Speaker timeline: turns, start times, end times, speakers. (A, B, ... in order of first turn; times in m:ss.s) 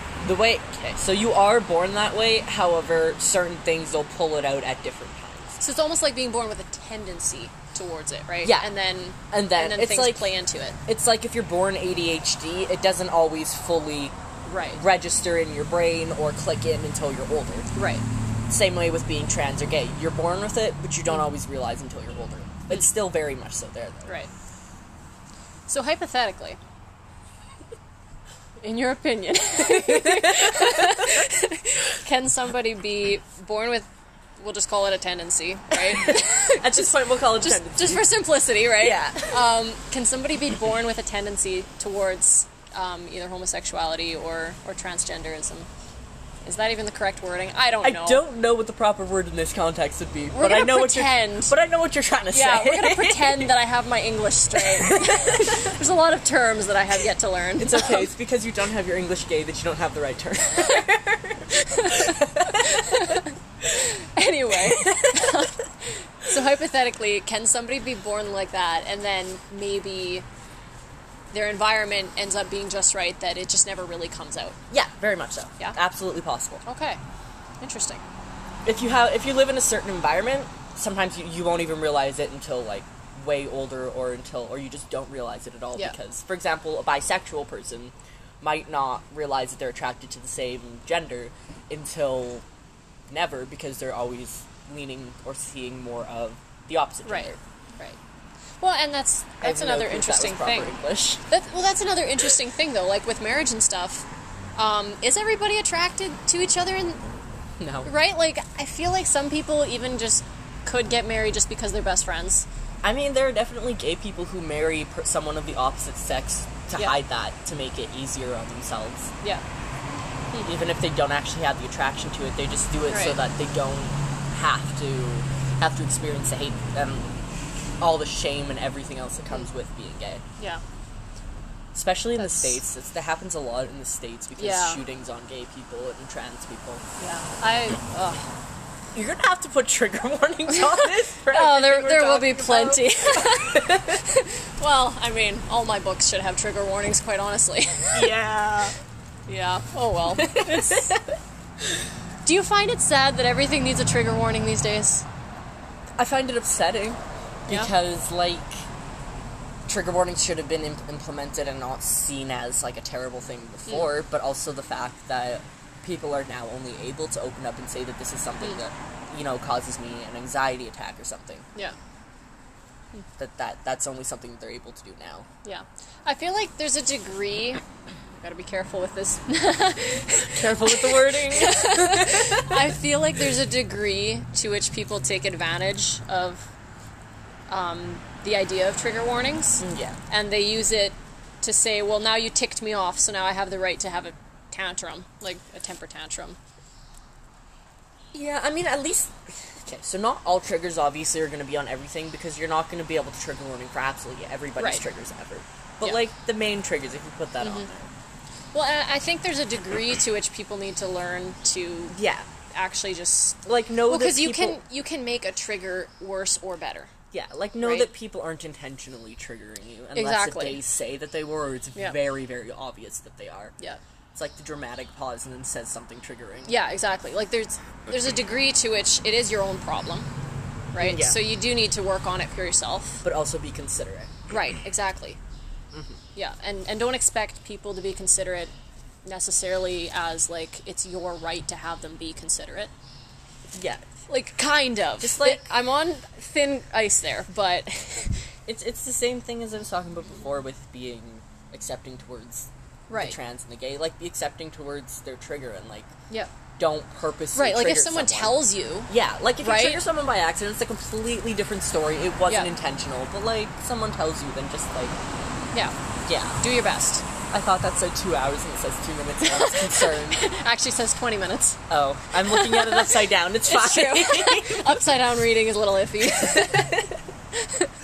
0:00.2-0:05.6 A
0:05.6-0:10.8 B
0:08.4-0:08.7 A
0:09.3-0:10.3 A
0:10.8-0:14.1 A
0:14.4-0:14.8 B
0:14.7-0:17.7 A
0:17.7-0:18.0 B
0:18.5-0:24.1 A
0:25.7-0:26.6 B
0:28.6-0:45.7 B
0:29.6-0:31.2 A
0:35.8-0:38.2 A
0:38.7-0:39.4 A
0:46.4-0:48.2 B
0:47.8-0:53.5 A
0:50.3-0:51.5 B
0:52.3-0:58.1 B
0:54.6-0:55.7 A
0:57.6-1:03.2 A
1:01.5-1:10.2 B
1:04.7-1:05.4 A
1:11.3-1:14.6 B
1:14.7-1:16.6 A
1:16.6-1:17.0 B
1:17.6-1:18.0 B
1:18.6-1:32.4 A
1:33.1-1:37.4 A
1:37.0-1:38.0 B
1:38.6-1:40.8 B
1:39.4-1:41.2 A
1:41.3-1:44.0 B
1:44.6-1:47.0 B
1:47.6-1:47.9 A
1:47.8-1:52.4 B
1:52.8-1:59.1 A
2:00.4-2:07.1 A
2:02.9-2:03.2 B
2:07.8-2:10.2 A
2:11.7-2:16.8 A
2:12.2-2:12.5 B
2:14.4-2:14.8 B
2:17.0-2:18.2 B
2:18.9-2:24.0 A
2:21.3-2:28.1 B
2:27.9-2:28.8 A
2:29.3-2:30.9 B
2:30.1-2:31.2 A
2:32.2-2:35.0 B
2:36.0-2:38.7 A
2:39.7-2:51.4 A
2:53.2-2:55.3 A
2:55.4-2:57.6 B
2:58.2-3:06.5 B
3:00.3-3:02.7 A
3:07.5-3:16.4 B
3:09.6-3:10.0 A
3:18.1-3:27.9 A
3:24.6-3:24.8 B
3:27.4-3:27.7 B
3:28.5-3:32.0 B
3:31.9-3:32.3 A
3:32.5-3:36.9 B
3:33.4-3:34.6 A
3:37.1-3:43.5 A
3:37.6-3:37.9 B
3:39.9-3:40.6 B
3:44.1-3:46.6 A
3:46.5-3:50.1 B
3:50.7-3:53.0 B
3:50.8-3:51.2 A
3:53.0-3:54.3 A
3:54.3-3:55.2 B
3:55.7-3:56.0 A
3:56.1-3:58.5 B
3:59.0-4:02.7 B
4:03.5-4:03.8 A
4:04.1-4:08.3 B
4:05.0-4:05.5 A
4:08.5-4:15.9 A
4:12.9-4:13.2 B
4:16.6-4:25.0 A
4:17.3-4:19.8 B
4:26.0-4:26.4 A
4:26.4-4:27.0 B
4:27.3-4:30.3 A
4:29.3-4:31.6 B
4:31.7-4:34.7 A
4:32.2-4:36.7 B
4:36.1-4:37.0 A
4:37.4-4:37.7 B